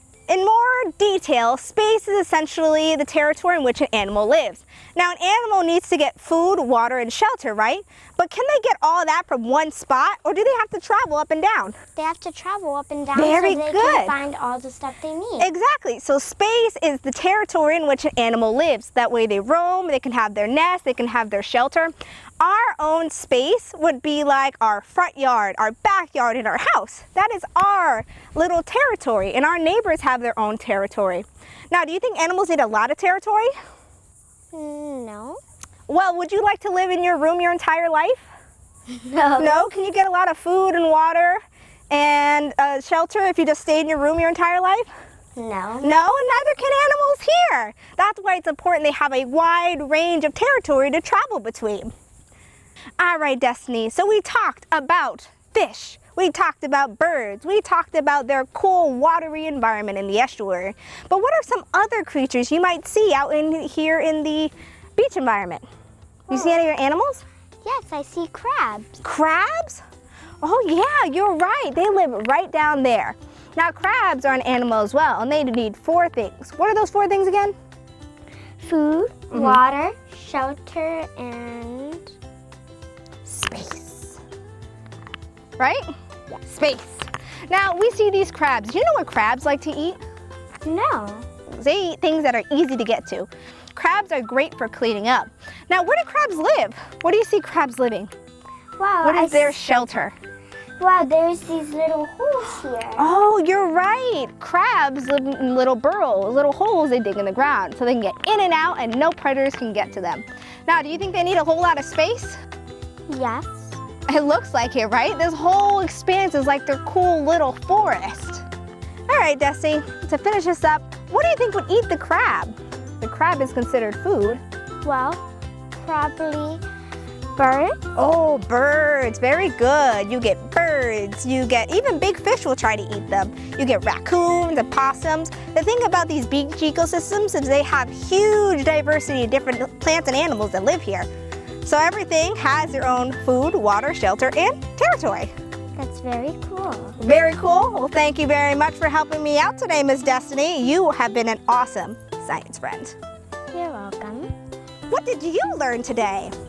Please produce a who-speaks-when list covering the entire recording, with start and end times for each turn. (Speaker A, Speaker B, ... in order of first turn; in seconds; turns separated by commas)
Speaker A: 0.3-11.8, Speaker B: 11.9-15.5, Speaker A: 13.2-14.2, Speaker A: 15.4-33.5, Speaker B: 34.5-35.4, Speaker A: 35.9-38.3, Speaker B: 38.9-39.7, Speaker A: 39.4-44.9, Speaker B: 45.4-46.0, Speaker A: 45.8-51.9, Speaker A: 53.0-65.7, Speaker B: 66.3-66.7, Speaker A: 66.3-67.2, Speaker B: 67.6-69.0, Speaker A: 69.0-69.8, Speaker A: 70.4-77.5, Speaker B: 78.6-82.1, Speaker A: 79.3-79.6, Speaker B: 83.3-84.2, Speaker A: 85.6-85.9, Speaker A: 86.5-90.0, Speaker B: 90.6-91.3, Speaker A: 91.5-98.1, Speaker B: 98.8-100.0, Speaker A: 99.0-100.2, Speaker B: 100.8-103.1, Speaker A: 103.0-112.4, Speaker B: 113.1-113.8, Speaker A: 114.1-118.5, Speaker A: 119.1-124.4, Speaker B: 124.8-125.2, Speaker B: 125.8-126.6, Speaker B: 127.4-127.8, Speaker A: 128.0-141.1, Speaker A: 141.6-145.3, Speaker B: 145.8-147.0, Speaker A: 147.0-153.0, Speaker B: 153.5-154.3, Speaker A: 154.9-156.3